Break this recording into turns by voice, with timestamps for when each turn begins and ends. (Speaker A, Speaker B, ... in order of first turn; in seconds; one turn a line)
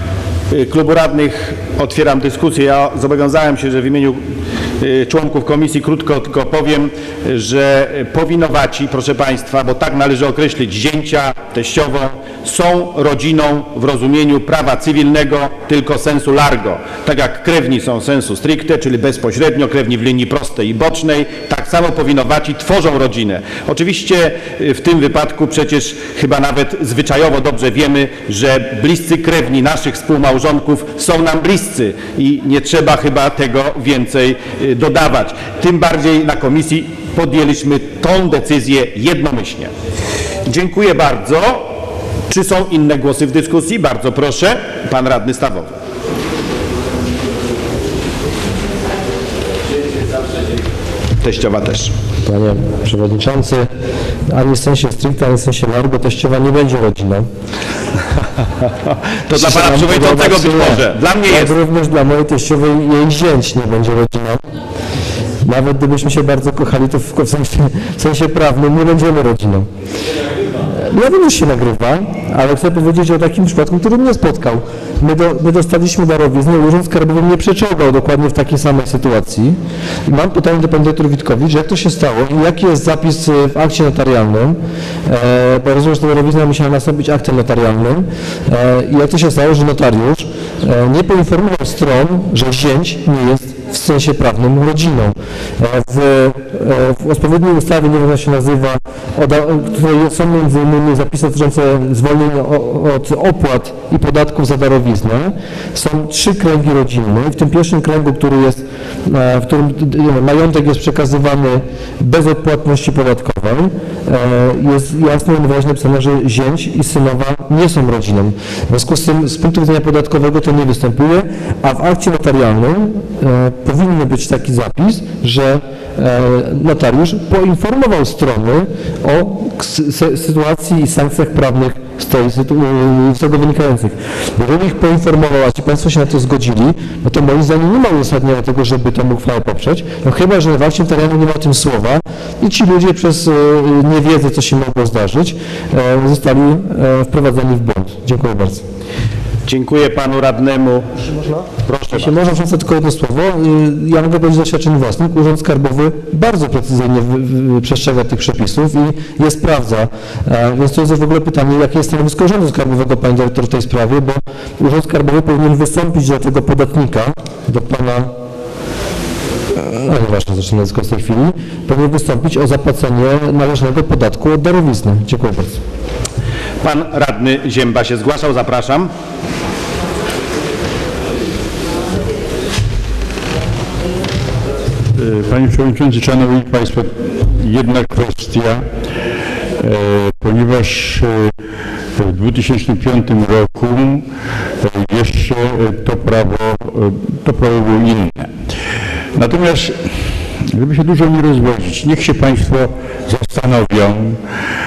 Speaker A: 0.5-4.2
Speaker A: 4.8-39.7
Speaker A: 40.5-41.7
Speaker A: 42.3-45.7
Speaker A: 51.2-51.9
Speaker B: 52.3-53.7
Speaker B: 54.3-57.3
Speaker A: 59.3-61.5
Speaker B: 59.3-64.4
Speaker B: 65.4-69.7
Speaker B: 70.7-148.6
Speaker A: 149.5-150.9
Speaker A: 151.7-152.1
Speaker B: 151.9-168.1
Speaker B: 169.6-175.6
Speaker A: 176.6-178.9
Speaker C: 185.0-188.6
Speaker C: 189.6-191.3
Speaker C: 192.0-194.1
Speaker C: 194.6-198.3
Speaker C: 199.2-199.8
Speaker C: 200.5-204.2